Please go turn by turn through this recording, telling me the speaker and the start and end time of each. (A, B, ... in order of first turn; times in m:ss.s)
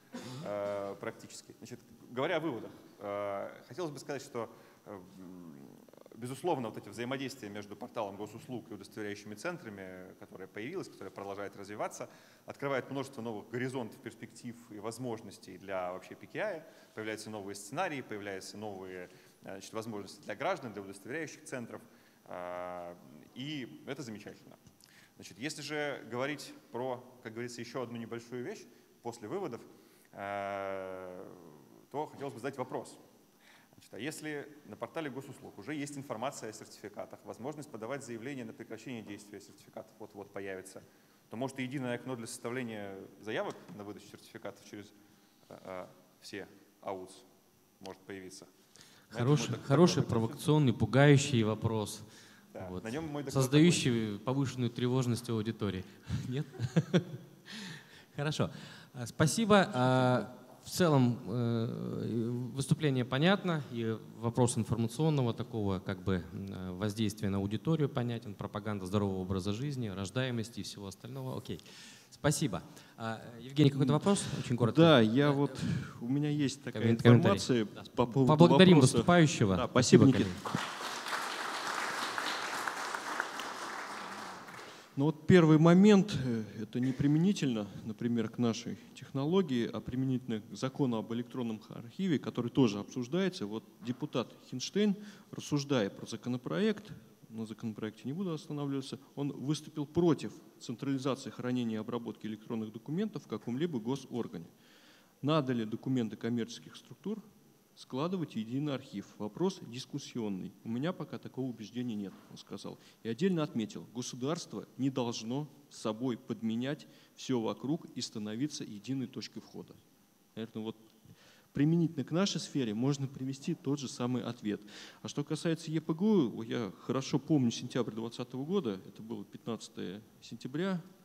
0:00.4-0:24.6 A
0:25.2-0:33.0 A
0:33.8-0:44.9 A
0:45.5-0:47.3 A
0:47.8-0:48.5 A
0:49.1-0:50.4 A
0:49.1-0:52.1 B
0:52.5-0:53.9 A
0:52.6-1:15.6 B
1:13.8-1:20.5 C
1:16.7-1:20.4 B
1:25.0-1:44.5 C
1:45.2-1:47.2 C
1:47.8-1:59.8 C
2:00.4-2:00.8 C
2:01.5-2:10.8 C